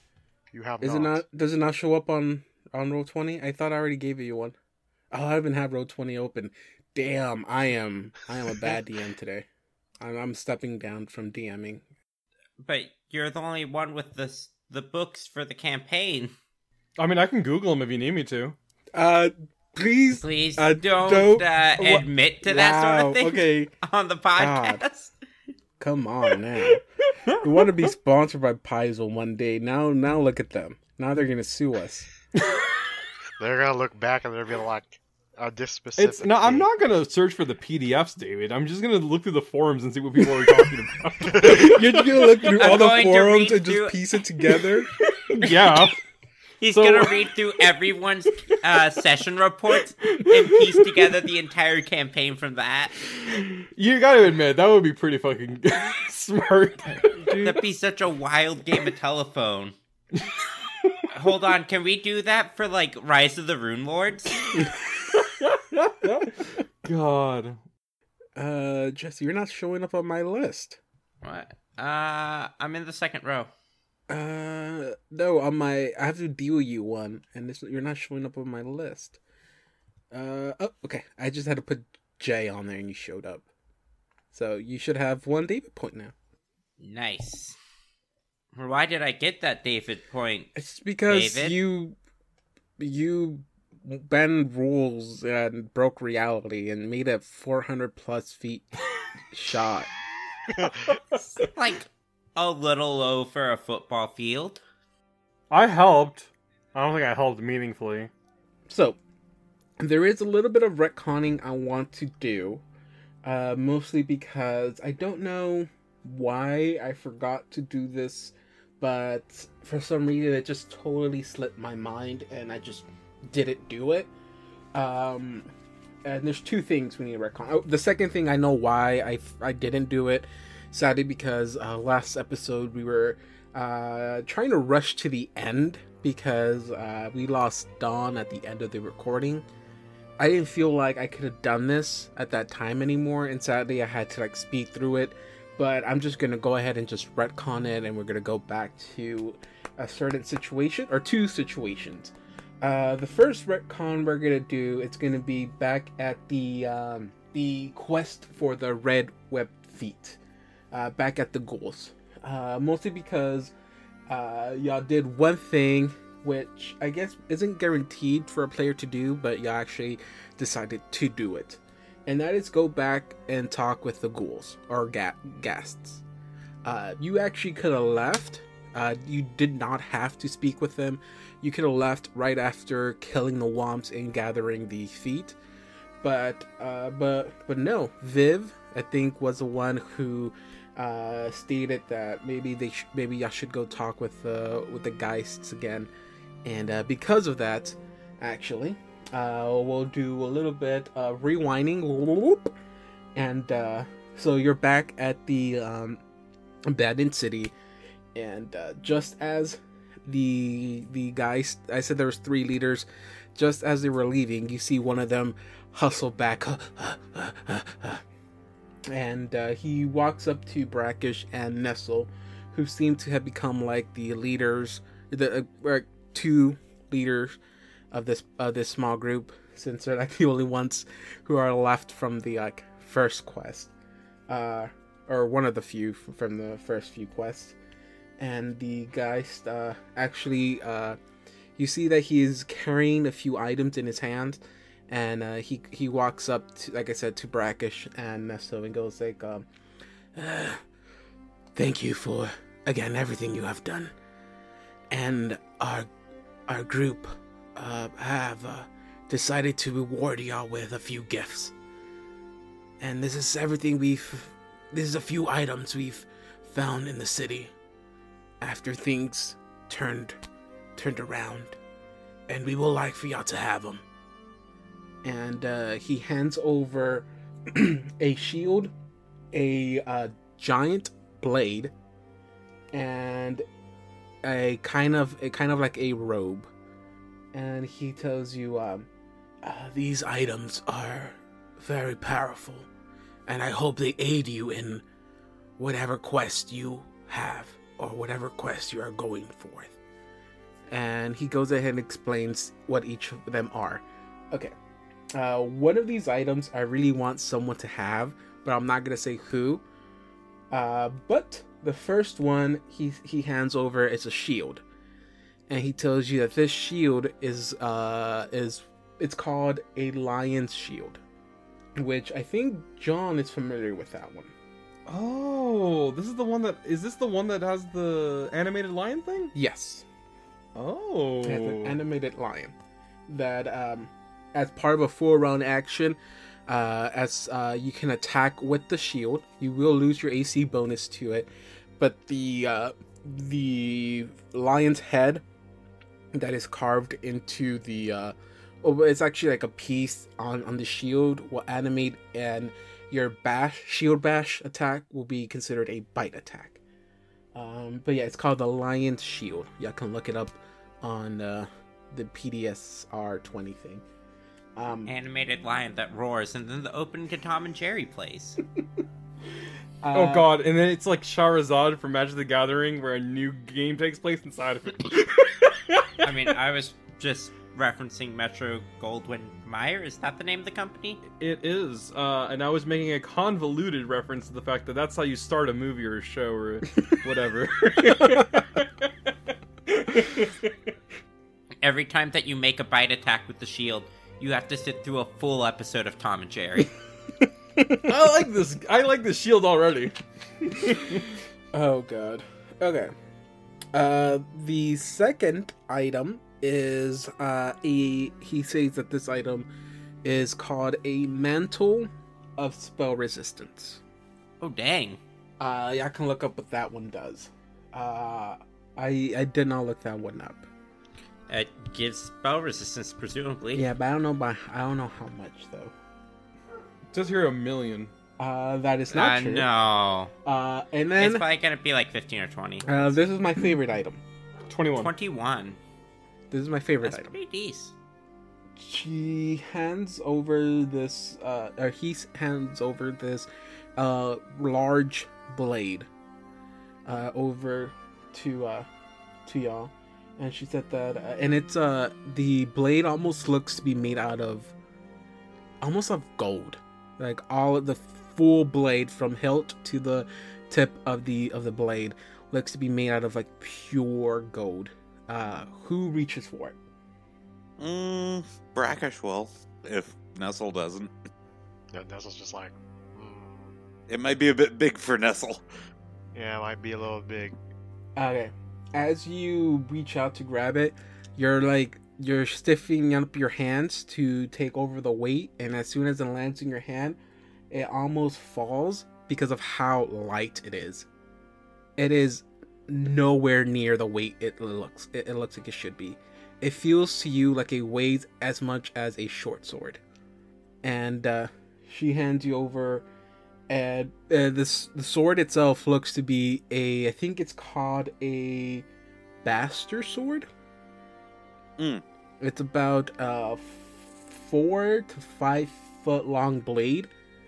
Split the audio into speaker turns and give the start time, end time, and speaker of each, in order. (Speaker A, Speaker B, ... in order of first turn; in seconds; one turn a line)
Speaker A: 0.5-1.2
Speaker B: 0.8-4.6
Speaker B: 5.1-9.5
Speaker B: 10.0-11.8
Speaker C: 12.6-16.3
Speaker D: 17.0-18.6
Speaker B: 18.9-23.7
Speaker C: 20.2-25.1
Speaker B: 24.4-24.8
Speaker B: 25.8-26.8
Speaker B: 27.4-32.1
Speaker A: 33.4-36.7
Speaker D: 36.0-42.8
Speaker A: 41.3-41.7
Speaker B: 41.4-44.9
Speaker C: 42.5-44.0
Speaker D: 45.0-46.0
Speaker C: 46.6-53.0
Speaker D: 46.7-47.2
Speaker D: 50.1-51.1
Speaker D: 53.2-57.6
Speaker C: 57.4-59.8
Speaker D: 60.8-61.1
Speaker C: 61.1-64.5
Speaker D: 65.1-67.6
Speaker B: 68.4-70.8
Speaker C: 71.2-73.5
Speaker B: 74.1-79.2
Speaker B: 80.1-83.5
Speaker B: 84.3-86.1
Speaker C: 86.8-87.6
Speaker C: 88.5-90.5
Speaker B: 90.5-92.0
Speaker C: 91.1-91.6
Speaker B: 92.8-98.8
Speaker B: 99.3-99.9
Speaker C: 101.4-104.6
Speaker D: 105.5-108.1
Speaker B: 108.7-109.0
Speaker B: 109.8-112.6
Speaker B: 113.2-124.1
Speaker B: 124.7-125.5
Speaker B: 126.0-139.5
Speaker B: 140.2-160.2
Speaker B: 160.7-163.5
Speaker B: 164.1-176.0
Speaker B: 176.7-185.4
Speaker B: 186.0-195.9
Speaker B: 196.4-202.5
Speaker B: 203.2-206.0
Speaker B: 206.7-207.5
Speaker B: 208.2-218.0
Speaker B: 218.9-227.4
Speaker B: 227.9-233.7
Speaker B: 234.3-237.6
Speaker B: 238.2-241.0
Speaker B: 241.6-249.5
Speaker B: 250.2-250.6
Speaker B: 251.6-253.9
Speaker B: 254.9-255.9
Speaker B: 256.5-261.5
Speaker B: 262.8-267.5
Speaker B: 268.4-270.2
Speaker B: 270.8-271.6
Speaker B: 272.3-273.8
Speaker B: 275.0-278.7
Speaker B: 279.3-281.7
Speaker B: 282.7-283.4
Speaker B: 284.2-286.5
Speaker B: 287.3-288.9
Speaker B: 289.4-292.7
Speaker B: 293.3-294.8
Speaker B: 295.6-299.8
Speaker B: 300.7-304.5
Speaker B: 305.1-309.6
Speaker B: 310.5-314.6
Speaker B: 315.5-321.0
Speaker B: 321.8-324.3
Speaker D: 324.9-329.3
Speaker B: 329.3-329.9
Speaker D: 330.6-331.8
Speaker B: 331.2-332.5
Speaker B: 333.1-345.2
Speaker B: 346.1-356.6
Speaker B: 357.3-363.8
Speaker B: 364.6-364.9
Speaker C: 364.9-368.4
Speaker B: 369.8-370.3
Speaker D: 369.9-375.9
Speaker C: 376.0-381.0
Speaker D: 381.2-388.7
Speaker D: 389.7-390.5
Speaker C: 391.6-396.7
Speaker D: 397.8-401.1
Speaker B: 401.5-402.9
Speaker B: 403.7-409.5
Speaker B: 410.0-413.8
Speaker C: 414.4-415.0
Speaker B: 415.4-420.5
Speaker C: 421.3-423.7
Speaker B: 423.5-425.7
Speaker D: 426.9-427.9
Speaker B: 428.2-429.5
Speaker C: 428.9-430.1
Speaker B: 430.2-431.3
Speaker C: 431.0-432.7
Speaker B: 432.6-434.0
Speaker D: 434.5-434.9
Speaker C: 434.7-435.6
Speaker B: 436.3-437.1
Speaker C: 436.8-437.7
Speaker B: 438.6-445.9
Speaker B: 446.9-448.7
Speaker B: 449.3-454.5
Speaker B: 455.6-466.6
Speaker E: 467.6-470.9
Speaker A: 471.7-473.6
Speaker E: 473.9-475.4
Speaker A: 476.1-477.4
Speaker B: 478.0-487.0
Speaker B: 487.5-490.9
Speaker B: 491.8-499.8
Speaker B: 500.6-502.9
Speaker B: 503.5-508.7
Speaker B: 509.2-510.3
Speaker E: 511.6-511.8
Speaker B: 512.2-516.9